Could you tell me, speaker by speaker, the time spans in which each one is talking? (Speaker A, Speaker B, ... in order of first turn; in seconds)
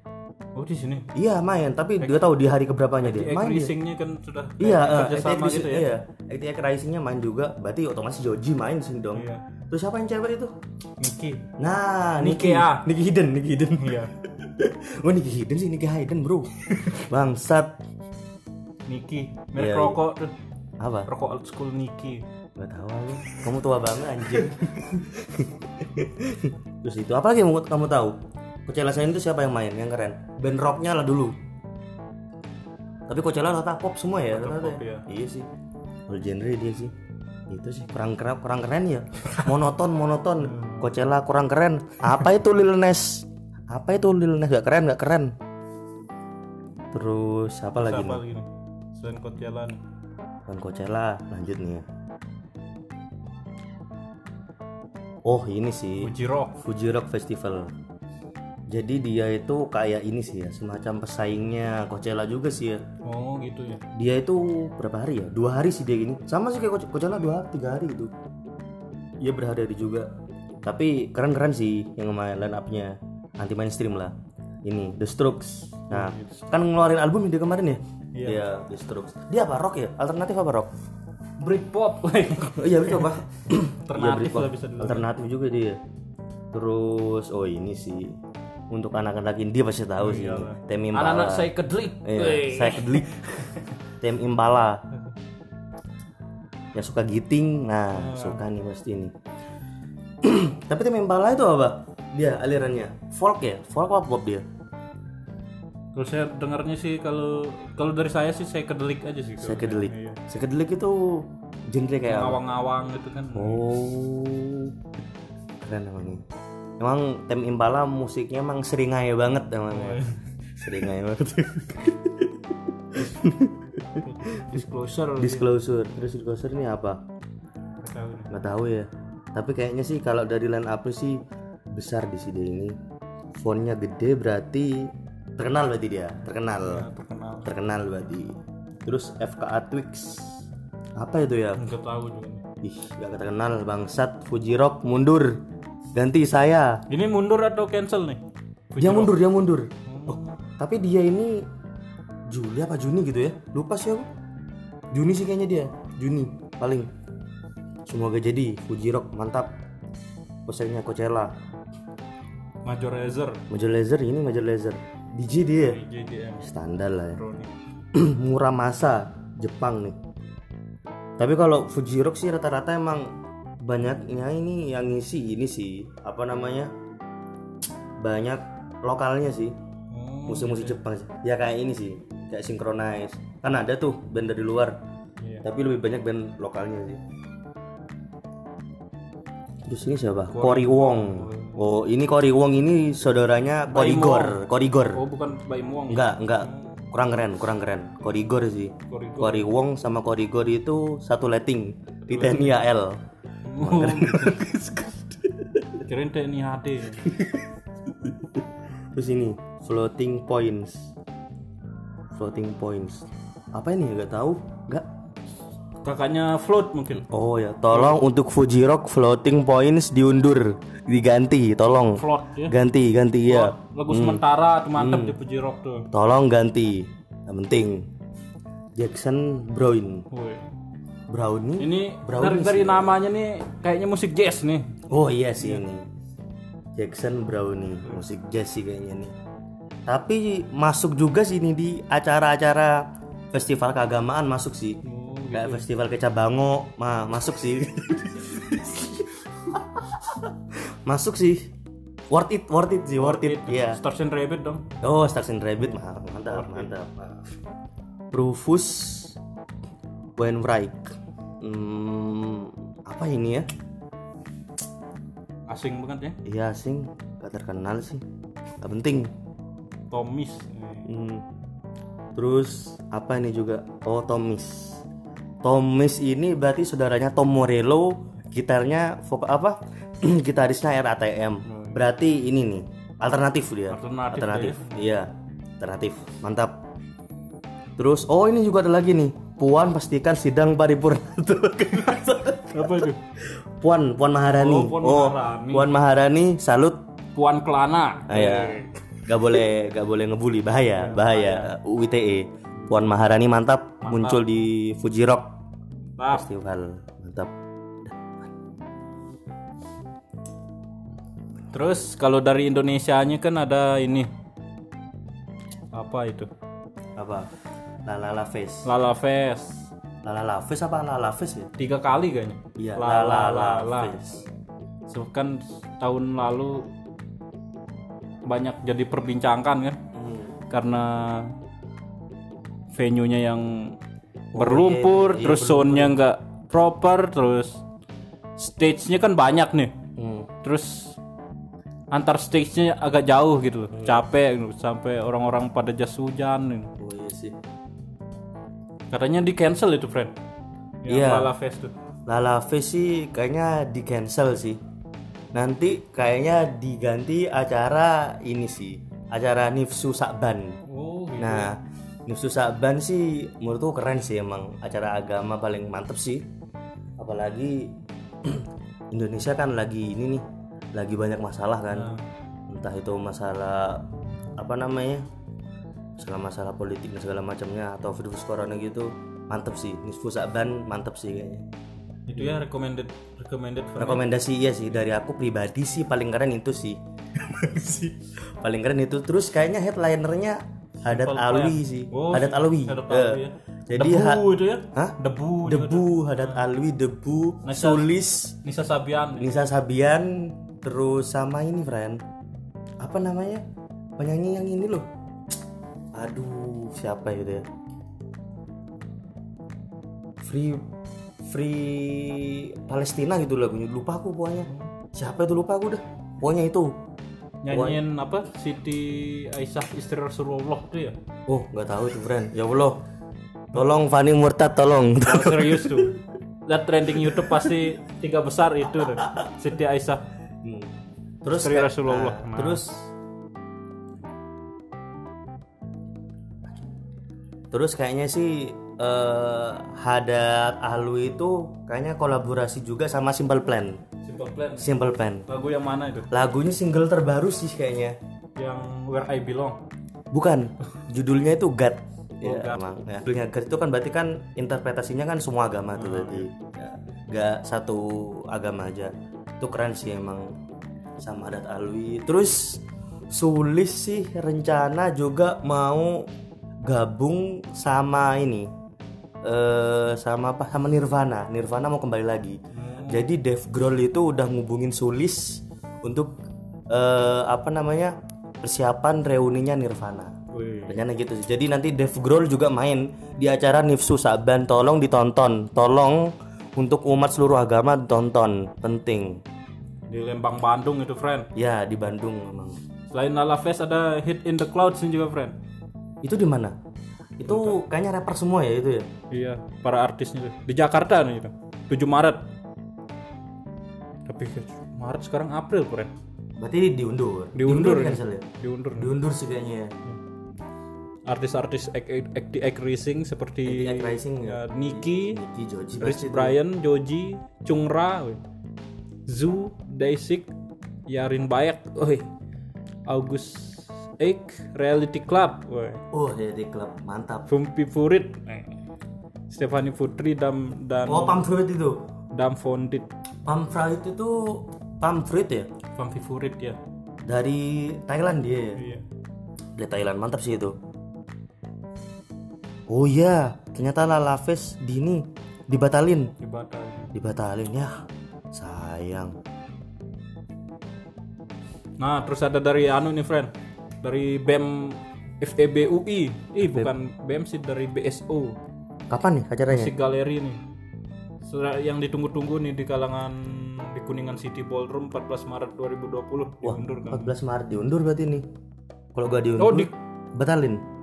Speaker A: 0.6-1.1, 3.0-5.9, 9.1-9.4, 11.0-11.5, 12.2-12.9, 13.8-14.1, 16.7-17.0, 18.9-20.3, 21.1-22.2, 24.3-25.0, 34.3-35.1, 40.4-41.0, 47.8-49.8, 56.0-56.6, 63.0-63.8, 75.9-76.5, 78.1-78.4, 81.4-83.2, 83.7-85.1, 90.0-93.5, 97.9-98.4, 106.0-110.2, 112.1-113.7, 119.7-120.2, 123.8-125.5, 127.8-128.3, 136.6-137.5, 141.6-142.4, 146.9-149.2, 149.9-150.4, 162.6-163.4, 165.6-166.5, 167.1-167.5, 179.9-180.8, 185.2-185.5, 190.3-191.7, 193.7-196.9, 198.9-199.5, 202.1-202.6, 203.4-204.9, 205.8-207.1, 215.8-217.1, 217.7-218.0, 221.9-222.6, 223.2-225.9, 230.1-230.5, 231.6-234.8, 235.4-235.6, 244.8-245.7, 248.5-248.8, 253.0-254.7, 256.3-256.7, 265.5-266.2, 269.9-270.9, 281.5-281.8, 283.7-284.8, 292.5-293.0, 294.3-295.7, 297.1-298.7, 300.8-301.5, 303.8-304.2, 306.0-306.2, 311.5-314.1, 315.7-316.3, 318.6-319.7, 321.6-324.0, 324.9-326.7, 328.2-329.8, 330.5-331.4, 332.7-333.8, 334.4-337.6, 338.4-339.7, 340.4-341.0, 341.9-346.7, 348.9-350.1, 350.8-351.7, 360.7-361.5, 371.7-372.0, 382.1-384.0, 387.2-387.9, 390.9-396.4, 397.4-397.9, 398.4-399.3, 414.4-414.7, 417.4-421.0, 425.0-426.0, 426.5-430.0, 431.4-432.7, 444.0-444.7, 445.3-446.1, 448.4-449.6, 452.2-452.6, 455.8-456.3, 472.5-473.1, 480.3-480.8, 489.9-491.3, 492.9-495.4, 497.2-497.6, 499.1-502.2, 504.1-505.9, 507.4-508.9, 511.1-515.2, 515.8-518.2, 519.1-520.3, 520.9-522.1, 522.9-525.8, 527.3-528.5, 529.3-531.3, 532.1-532.9, 535.8-536.6, 538.5-538.9, 546.2-546.9, 551.8-553.3, 553.8-558.4, 559.5-560.4, 561.2-567.1, 569.4-569.7
Speaker B: 1.1-3.7, 4.6-10.5, 11.6-17.8, 19.6-20.0, 20.8-21.1, 22.6-31.4, 33.1-35.5, 36.1-36.9, 37.5-45.4, 46.9-48.2, 50.5-51.9, 55.2-57.7, 58.7-62.8, 64.0-68.1, 69.2-70.1, 70.6-80.7, 82.6-85.8, 86.5-88.2, 88.7-91.5, 92.0-93.2, 94.0-94.8, 96.7-99.1, 100.2-104.5, 109.4-112.4, 113.3-114.8, 115.6-116.2, 116.8-120.0, 120.6-122.4, 122.9-124.6, 125.2-127.0, 128.3-131.2, 131.7-132.8, 133.4-136.9, 137.4-140.4, 141.0-141.7, 142.6-145.4, 145.9-146.8, 148.8-151.5, 152.3-154.1, 154.9-156.9, 157.9-159.6, 160.5-161.4, 163.5-165.8, 166.4-167.2, 167.9-170.0, 171.2-176.7, 178.0-179.6, 180.3-184.8, 185.4-187.0, 189.6-195.0, 195.9-203.0, 203.6-205.7, 207.1-207.4, 208.0-210.9, 212.1-214.9, 217.0-224.2, 224.8-225.2, 225.9-227.9, 228.8-230.1, 231.1-233.0, 234.9-235.9, 236.8-239.1, 239.9-244.8, 245.3-249.0, 249.8-250.3, 250.9-251.5, 252.1-253.8, 254.8-257.2, 258.1-259.2, 260.2-263.5, 266.2-268.0, 268.6-269.1, 270.9-271.2, 272.1-274.8, 275.4-286.6, 287.8-292.9, 293.6-296.8, 298.1-305.3, 306.1-307.3, 307.9-308.3, 317.0-317.3, 317.9-318.7, 320.0-321.5, 322.6-324.2, 329.9-330.3, 334.3-336.0, 340.0-340.3, 343.7-344.0, 346.8-347.4, 350.9-351.3, 352.1-354.6, 355.3-360.6, 361.2-366.3, 367.0-371.9, 372.5-373.9, 374.4-375.0, 376.0-381.5, 382.2-382.4, 383.8-386.8, 388.4-398.4, 399.2-402.0, 402.8-403.4, 404.0-404.9, 405.9-407.5, 410.2-410.7, 411.2-416.8, 417.5-417.8, 421.3-422.8, 423.5-426.0, 427.1-427.5, 429.0-429.2, 430.4-430.7, 431.2-432.7, 437.5-443.8, 444.6-445.2, 446.1-448.0, 450.1-460.4, 461.0-466.1, 466.6-468.5, 469.2-476.2, 476.7-480.1, 480.7-489.2, 491.4-492.6, 496.0-496.6, 497.2-498.9, 506.4-509.7, 513.5-516.4, 525.9-527.3, 530.9-531.9, 533.2-535.5, 537.0-538.6, 539.6-540.6, 542.7-546.1, 546.9-549.1, 556.4-556.7, 558.9-559.7, 566.4-568.2, 569.0-570.6